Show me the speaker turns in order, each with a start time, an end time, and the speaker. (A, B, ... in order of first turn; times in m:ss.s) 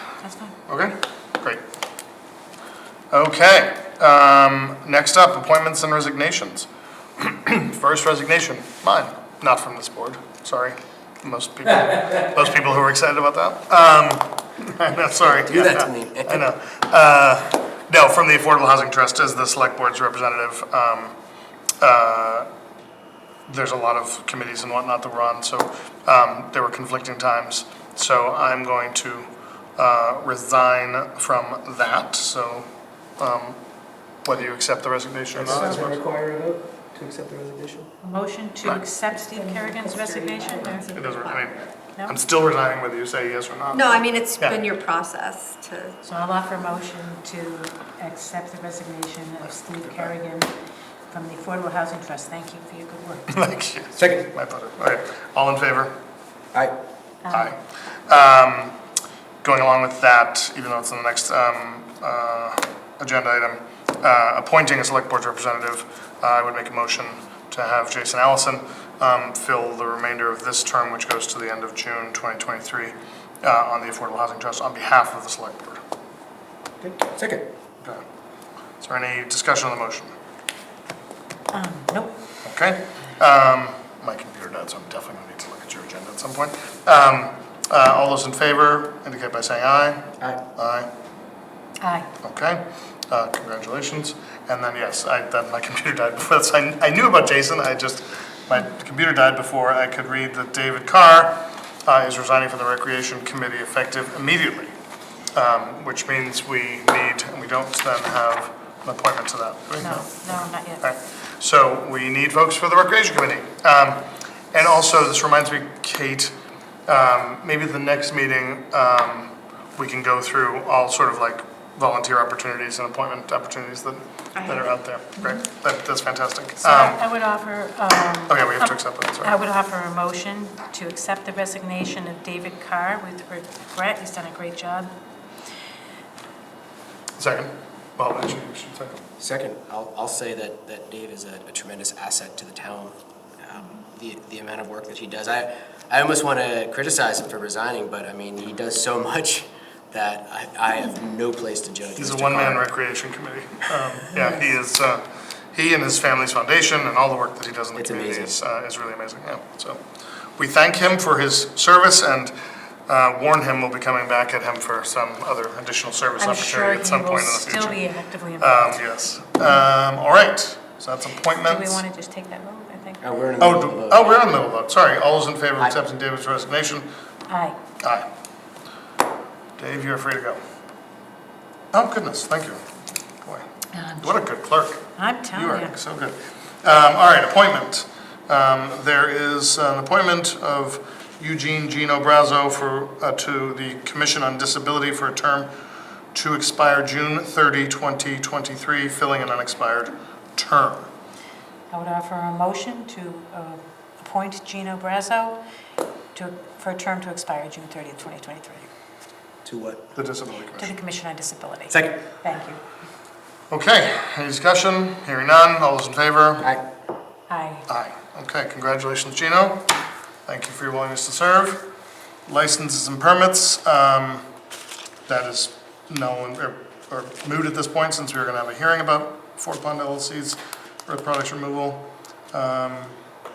0:00.2-0:00.6 A
0:00.7-0:01.6 B
0:03.1-0:21.1 B
0:15.2-0:16.4 C
0:21.8-0:22.5 B
0:23.5-0:32.7 B
0:33.2-0:33.6 B
0:34.2-0:36.0 B
0:35.4-0:37.9 C
0:38.0-0:40.9 A
0:39.2-0:41.7 D
0:40.9-0:44.6 B
0:43.7-0:46.0 D
0:46.0-0:50.5 A
0:49.8-0:50.1 B
0:51.1-0:53.3 A
0:53.3-0:56.0 B
0:54.0-0:54.3 C
0:57.2-0:57.5 A
0:57.3-0:58.8 B
0:59.4-1:15.8 B
1:16.8-1:17.5 C
1:18.8-1:20.1 B
1:21.5-1:22.1 A
1:22.4-1:30.9 B
1:31.8-1:32.1 A
1:32.2-1:44.7 B
1:45.3-1:56.3 B
1:49.8-1:50.8 A
1:56.9-2:07.0 B
2:06.6-2:14.9 A
2:08.3-2:09.3 B
2:17.2-2:19.0 B
2:19.2-2:32.7 C
2:32.0-2:39.8 B
2:37.8-2:38.3 C
2:40.4-2:42.3 B
2:42.9-2:47.8 B
2:46.2-2:48.8 A
2:48.4-2:51.8 B
2:51.3-2:53.0 A
2:53.0-2:54.2 C
2:53.4-2:56.9 B
2:57.3-2:57.6 A
2:57.8-2:58.1 B
2:59.6-3:00.4 B
3:01.7-3:02.6 B
3:03.2-3:15.5 B
3:03.7-3:04.1 A
3:05.0-3:05.7 A
3:16.1-3:20.9 B
3:21.7-3:25.4 A
3:26.1-3:28.7 A
3:29.4-3:29.9 C
3:30.0-3:30.7 B
3:30.5-3:32.6 A
3:31.7-3:32.0 C
3:33.5-3:36.5 B
3:37.3-3:37.7 A
3:37.7-3:39.7 B
3:40.2-3:41.7 B
3:42.3-3:44.2 B
3:45.1-3:53.0 B